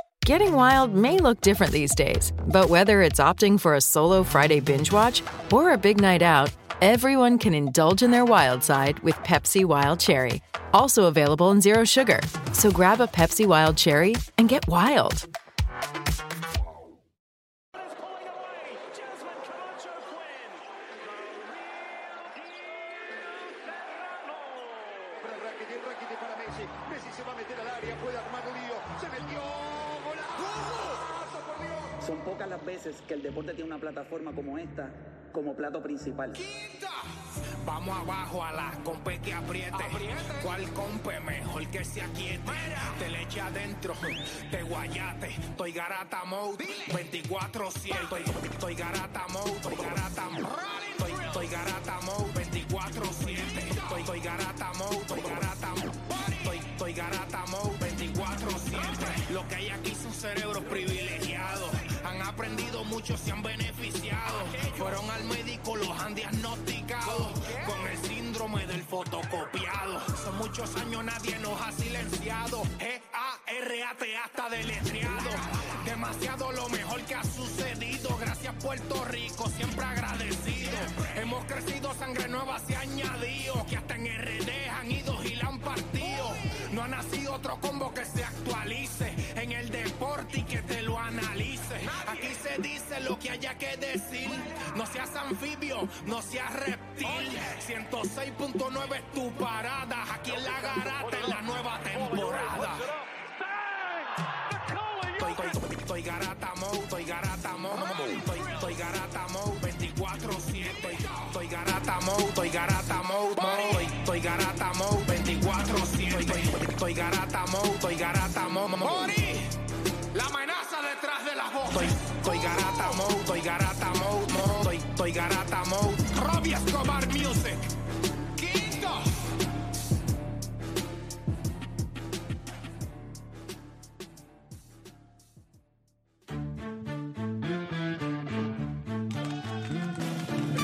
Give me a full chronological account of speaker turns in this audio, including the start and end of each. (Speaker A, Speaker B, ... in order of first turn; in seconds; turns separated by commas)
Speaker A: 0.2-15.2, Speaker B: 28.5-29.3, Speaker C: 32.0-36.4, Speaker B: 36.3-37.0, Speaker B: 37.6-102.8, Speaker C: 39.8-40.0, Speaker B: 105.1-119.5, Speaker B: 120.1-127.6, Speaker B: 128.4-129.0